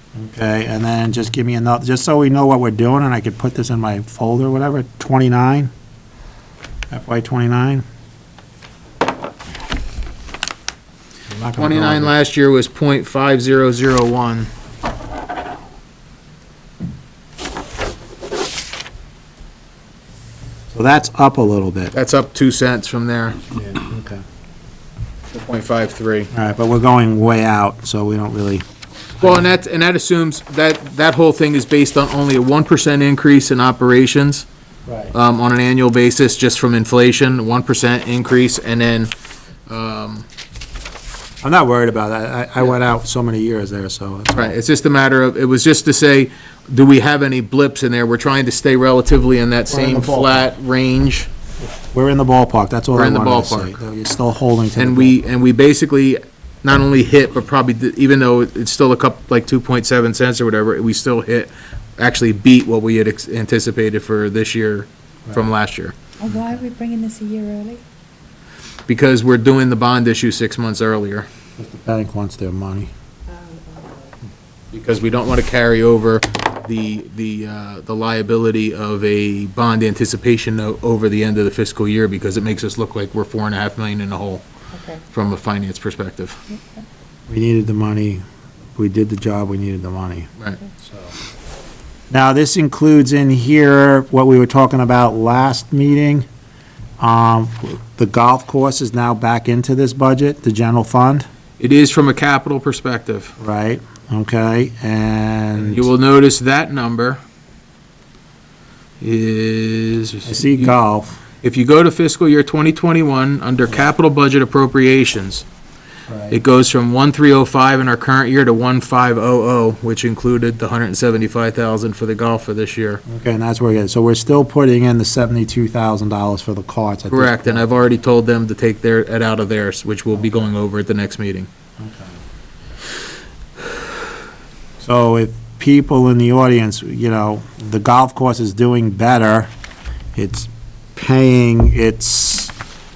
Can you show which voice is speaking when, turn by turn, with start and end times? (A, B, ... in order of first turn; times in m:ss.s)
0:00.2-0:05.7 A
0:06.9-0:07.8 A
0:11.3-0:12.1 A
0:11.6-0:14.5 B
0:20.7-0:21.9 A
0:21.9-0:23.5 B
0:23.5-0:24.2 A
0:25.3-0:26.3 B
0:26.3-0:28.6 A
0:29.2-0:29.5 A
0:29.2-0:34.5 B
0:34.9-0:35.1 A
0:35.1-0:39.1 B
0:39.7-0:40.3 B
0:41.4-0:44.6 A
0:44.3-0:51.3 B
0:49.7-0:50.5 A
0:51.7-0:55.2 A
0:53.0-0:53.8 B
0:54.8-1:06.0 B
1:06.2-1:07.8 C
1:08.9-1:11.3 B
1:11.6-1:12.9 A
1:13.3-1:14.1 C
1:14.7-1:24.4 B
1:25.1-1:26.4 B
1:27.3-1:28.2 A
1:28.8-1:31.1 A
1:32.1-1:36.3 A
1:37.0-1:41.3 A
1:41.6-1:43.3 B
1:43.4-1:45.9 A
1:45.6-1:47.2 B
1:49.0-1:50.7 B
1:50.2-1:51.2 A
1:51.4-1:55.5 B
1:56.1-1:56.4 A
1:56.3-2:03.0 B
2:03.1-2:07.7 A
2:07.1-2:11.5 B
2:11.8-2:12.2 A
2:14.8-2:19.5 A
2:20.2-2:22.5 A